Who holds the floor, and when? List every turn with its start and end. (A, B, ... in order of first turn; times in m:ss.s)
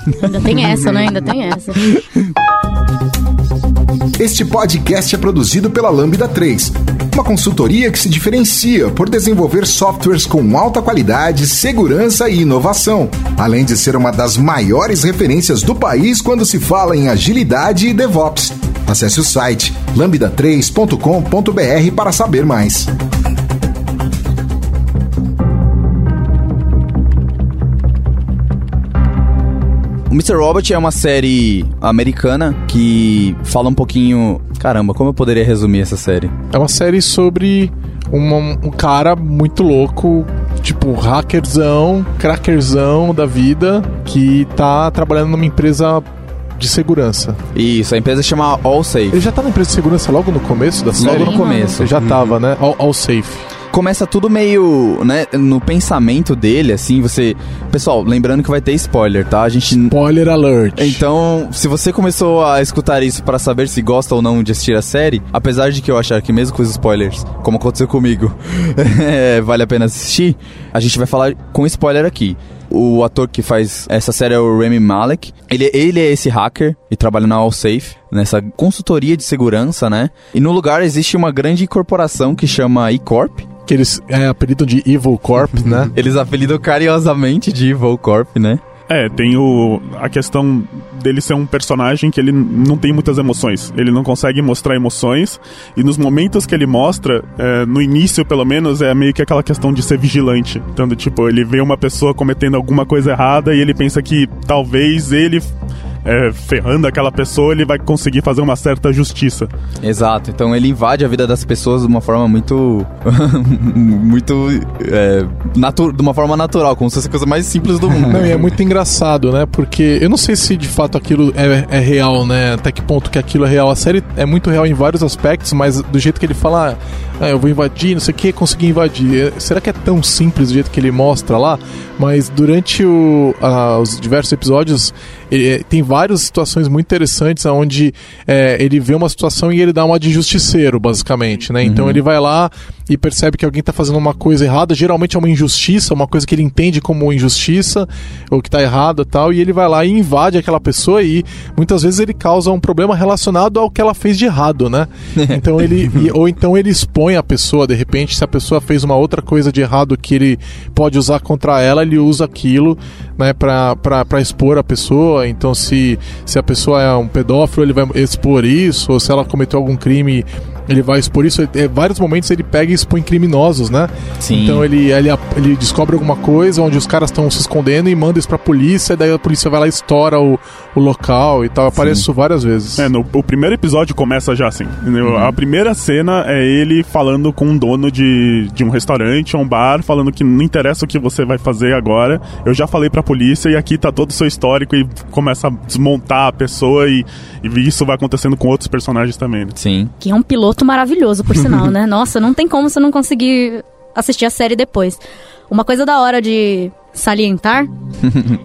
0:00.2-0:02.0 A
0:04.2-0:22.9 B
0:30.1-0:36.3 C
0:36.5-0:46.0 D
0:46.6-0:47.4 D
0:47.6-0:49.2 C
0:49.1-0:53.5 D
0:51.0-0:52.0 C
0:51.0-0:51.8 A
0:53.7-1:00.0 C
0:59.9-1:01.0 D
1:00.8-1:23.5 C
1:23.7-1:25.9 D
1:25.9-1:28.6 C
1:28.9-1:45.5 E
1:46.0-1:49.5 E
1:49.8-1:58.5 C
1:58.1-3:02.9 D
2:21.6-2:22.0 C
2:54.2-2:54.7 C
3:01.8-3:02.0 C
3:02.8-3:19.6 E
3:05.1-3:05.4 C
3:19.6-3:19.9 C
3:20.0-3:27.7 A